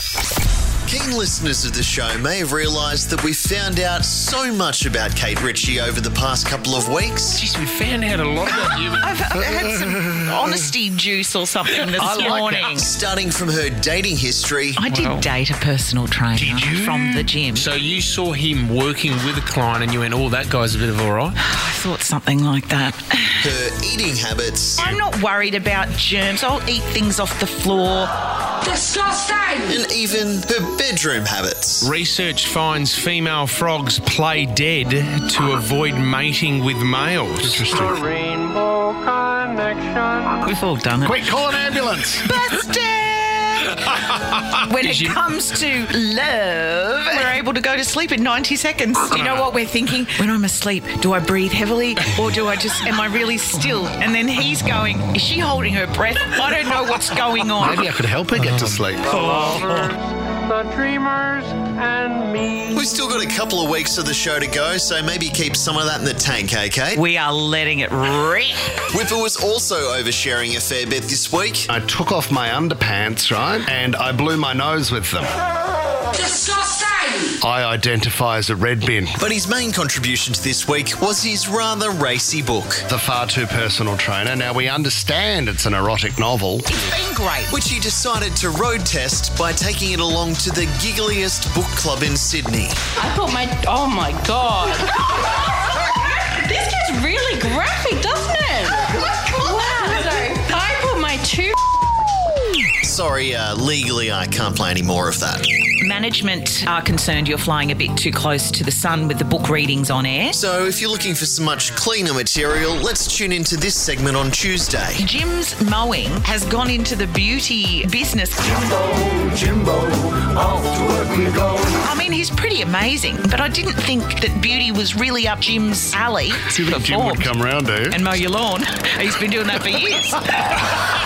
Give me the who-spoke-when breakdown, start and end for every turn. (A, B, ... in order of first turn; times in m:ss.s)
0:00.9-0:07.4 A
0:07.3-0:09.1 B
0:08.7-0:12.9 C
0:09.4-0:10.7 D
0:12.0-0:12.7 D
0:12.2-0:14.8 A
0:14.8-0:17.7 C
0:14.9-0:15.2 B
0:16.4-0:17.3 D
0:17.6-0:21.4 B
0:21.4-0:23.5 C
0:23.4-0:25.0 A
0:24.8-0:28.1 C
0:28.6-0:29.7 E
0:29.7-0:31.9 A
0:31.8-0:37.7 B
0:37.4-0:38.0 D
0:37.8-0:40.2 F
0:40.4-0:41.4 C
0:41.0-0:42.3 D
0:42.2-0:43.8 C
0:44.6-0:57.9 C
0:44.8-0:45.2 B
0:49.1-0:49.5 D
0:57.6-0:59.9 D
0:58.4-0:58.8 B
0:59.1-0:59.9 F
1:00.6-1:02.7 F
1:02.7-1:07.0 A
1:07.0-1:08.6 C
1:08.9-1:11.7 A
1:11.7-1:15.3 D
1:16.2-1:17.2 E
1:17.4-1:19.2 D
1:19.2-1:22.8 A
1:22.9-1:26.7 D
1:26.7-1:27.5 C
1:27.5-1:32.8 A
1:33.0-1:35.1 E
1:35.8-1:41.6 E
1:42.8-1:45.5 A
1:45.8-1:50.4 C
1:50.3-1:55.0 A
1:55.0-1:58.6 C
2:01.8-2:07.3 C
2:06.4-2:08.0 D
2:07.9-2:10.6 C